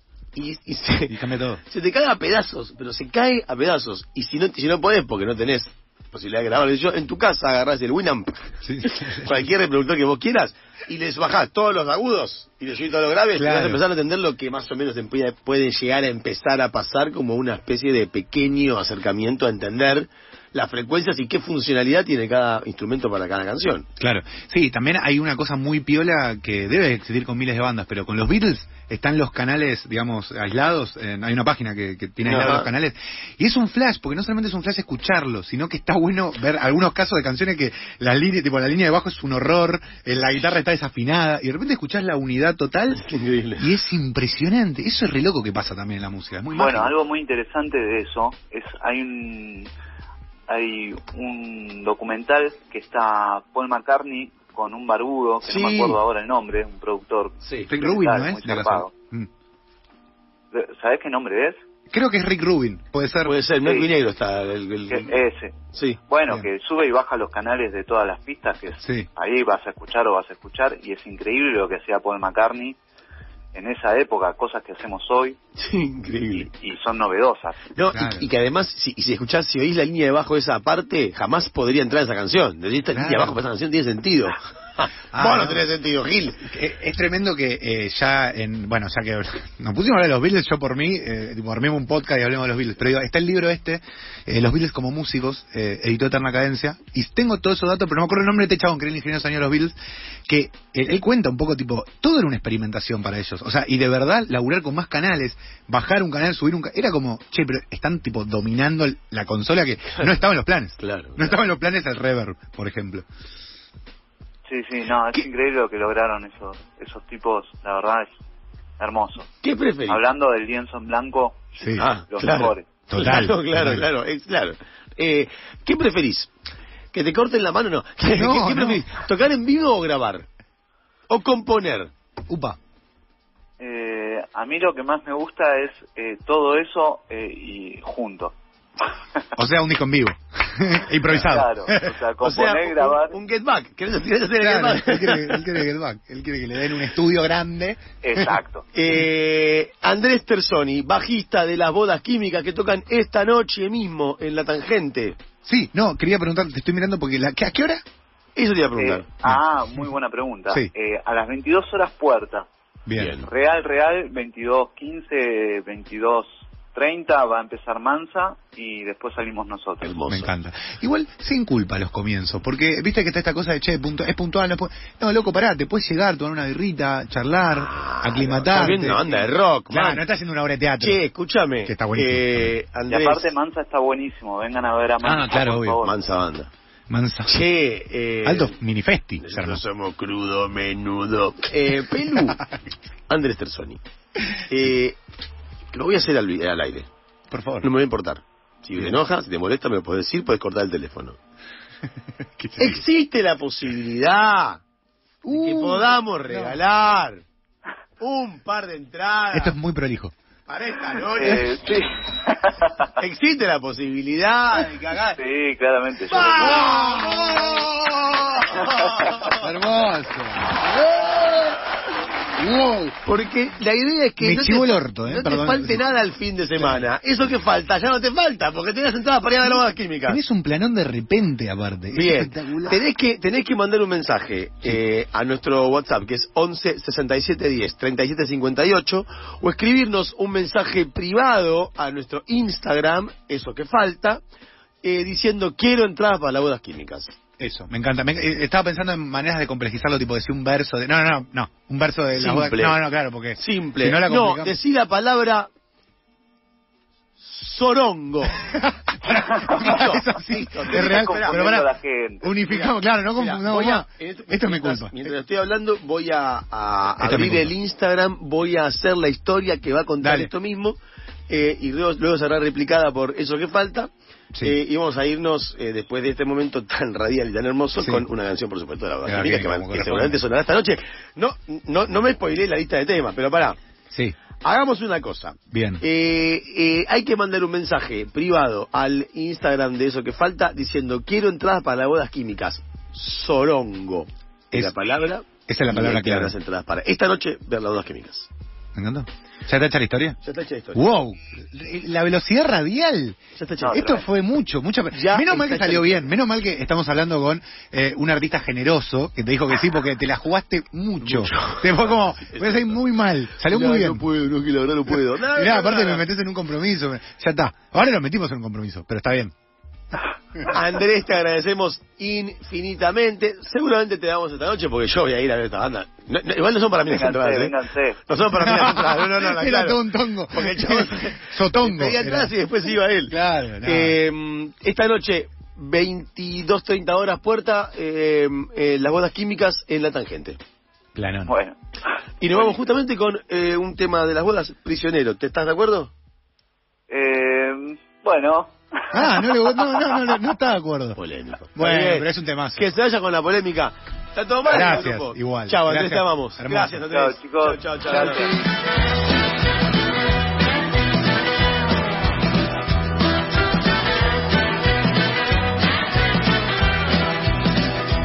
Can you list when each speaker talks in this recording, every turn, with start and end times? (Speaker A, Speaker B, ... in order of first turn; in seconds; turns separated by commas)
Speaker A: 0.3-23.9, Speaker B: 1.1-1.6, Speaker B: 8.6-9.4, Speaker B: 13.3-13.8, Speaker B: 24.0-43.0, Speaker A: 32.2-32.7, Speaker A: 42.9-43.6, Speaker B: 43.6-46.9, Speaker C: 46.5-49.7, Speaker C: 50.5-58.9, Speaker A: 55.4-56.0, Speaker A: 57.4-57.7, Speaker B: 57.7-59.3, Speaker C: 60.5-61.6, Speaker B: 61.9-63.4, Speaker A: 63.2-65.1, Speaker C: 63.6-63.9, Speaker C: 64.9-65.5, Speaker A: 65.7-66.0, Speaker C: 66.1-72.8, Speaker B: 68.8-69.1, Speaker C: 73.5-75.4, Speaker A: 75.6-76.5, Speaker C: 76.3-77.6, Speaker A: 77.7-86.4, Speaker B: 77.9-78.3, Speaker B: 82.9-83.4, Speaker B: 85.1-85.7, Speaker B: 86.4-99.8, Speaker B: 100.3-113.1, Speaker A: 110.8-111.4, Speaker C: 114.5-118.1, Speaker C: 118.8-119.3, Speaker A: 119.4-120.0, Speaker C: 119.9-122.7, Speaker B: 121.6-121.9, Speaker A: 121.8-126.3, Speaker B: 122.9-123.8, Speaker A: 126.9-130.3, Speaker B: 128.1-128.8, Speaker A: 131.1-131.9, Speaker B: 132.3-132.6, Speaker C: 133.6-138.3, Speaker B: 139.3-141.9, Speaker C: 141.1-143.2, Speaker A: 142.2-145.5, Speaker B: 144.4-148.3, Speaker C: 148.0-148.7, Speaker A: 148.7-155.2, Speaker B: 155.4-157.8, Speaker A: 158.3-159.0, Speaker C: 158.8-162.4, Speaker B: 159.2-159.9, Speaker B: 162.8-163.1, Speaker A: 162.9-163.3, Speaker C: 163.2-169.9, Speaker A: 169.8-170.3, Speaker B: 170.1-181.0, Speaker A: 177.5-180.0, Speaker A: 180.8-183.3, Speaker B: 181.7-182.6, Speaker C: 182.9-185.9, Speaker B: 185.0-185.8, Speaker A: 185.8-186.5, Speaker B: 186.9-187.4, Speaker A: 187.3-188.6, Speaker B: 188.2-189.6, Speaker A: 189.2-192.4, Speaker B: 192.1-192.4, Speaker A: 193.1-193.8, Speaker A: 194.5-195.0, Speaker A: 195.7-196.9, Speaker B: 197.3-197.7, Speaker A: 197.6-201.2, Speaker B: 202.4-202.8, Speaker A: 202.6-204.6, Speaker B: 205.2-206.6, Speaker A: 205.3-207.2, Speaker A: 208.0-209.5, Speaker B: 209.3-210.1, Speaker A: 210.4-211.4, Speaker C: 211.2-212.9, Speaker A: 213.0-215.2, Speaker C: 215.2-216.6, Speaker A: 216.1-219.4, Speaker B: 216.3-217.7, Speaker B: 219.3-221.6, Speaker B: 222.3-223.0, Speaker A: 223.0-230.2, Speaker B: 224.2-225.9, Speaker B: 226.6-226.9, Speaker B: 229.5-232.8, Speaker A: 231.9-244.2, Speaker A: 244.8-247.1, Speaker B: 247.4-254.6, Speaker A: 252.1-252.8, Speaker A: 253.3-255.5, Speaker A: 257.2-258.4, Speaker B: 258.3-261.7, Speaker A: 259.4-261.4, Speaker C: 260.7-262.3, Speaker B: 262.2-265.1, Speaker A: 262.4-273.9, Speaker B: 267.0-267.5, Speaker B: 270.0-270.3, Speaker A: 274.4-283.6, Speaker B: 277.8-278.1, Speaker B: 279.0-280.2, Speaker A: 284.4-298.3, Speaker B: 285.5-285.8, Speaker B: 295.5-296.3, Speaker B: 298.8-300.2, Speaker A: 300.2-300.8, Speaker B: 300.7-303.2, Speaker A: 303.4-303.9, Speaker C: 303.6-304.1, Speaker B: 303.7-314.1, Speaker A: 304.9-306.1, Speaker A: 311.0-312.8, Speaker A: 313.4-316.0, Speaker B: 314.9-319.3, Speaker A: 320.4-327.5, Speaker C: 326.9-328.1, Speaker A: 328.1-340.4, Speaker B: 328.4-332.3, Speaker B: 333.1-334.0, Speaker B: 340.9-341.3, Speaker C: 341.3-341.6, Speaker A: 342.2-345.9, Speaker C: 346.9-350.2, Speaker B: 348.9-351.0, Speaker A: 350.9-358.3, Speaker B: 351.5-352.6, Speaker B: 354.5-356.8, Speaker C: 356.9-358.4